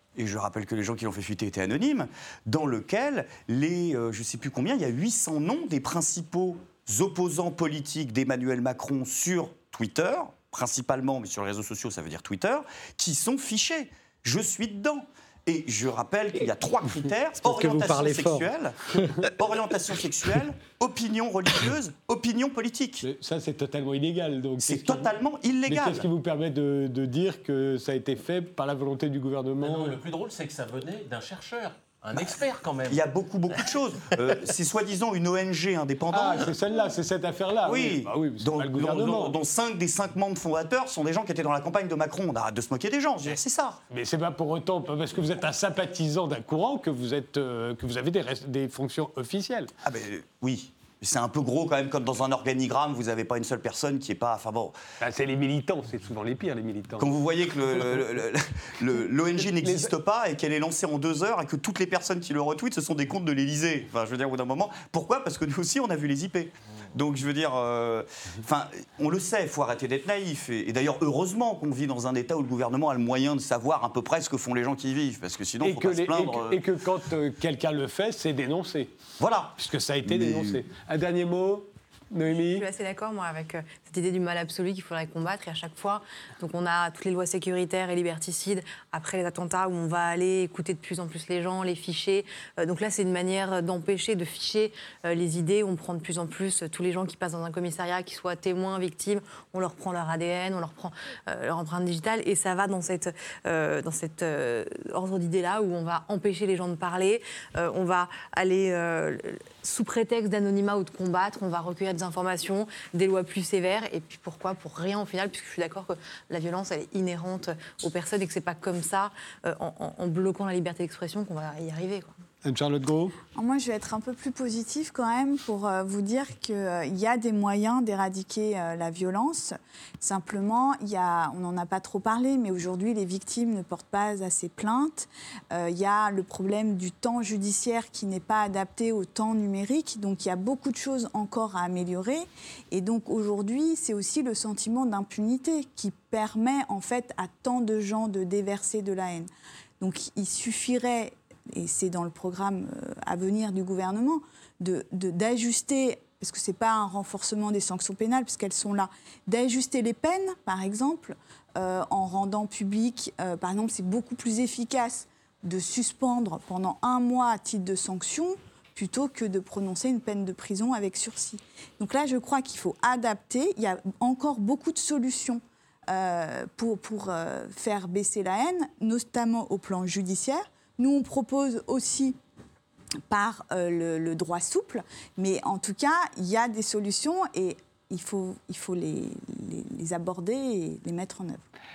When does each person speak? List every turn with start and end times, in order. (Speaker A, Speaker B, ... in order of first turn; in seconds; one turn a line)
Speaker A: 0.1-23.0
Speaker B: 17.4-18.5
Speaker B: 23.0-30.0
Speaker A: 24.6-26.1
Speaker C: 29.6-33.0
Speaker A: 32.9-36.5
Speaker B: 36.1-39.4
Speaker A: 37.6-43.8
Speaker B: 43.9-49.7
Speaker A: 49.8-54.8
Speaker B: 55.0-57.1
Speaker A: 57.0-76.6
Speaker B: 57.8-58.0
Speaker B: 58.9-59.9
Speaker B: 75.6-78.9
Speaker A: 79.2-80.6
Speaker B: 79.6-82.7
Speaker D: 82.3-122.2
Speaker B: 122.4-123.2
Speaker E: 123.3-149.3
Speaker E: 149.8-182.2
Speaker E: 183.1-191.4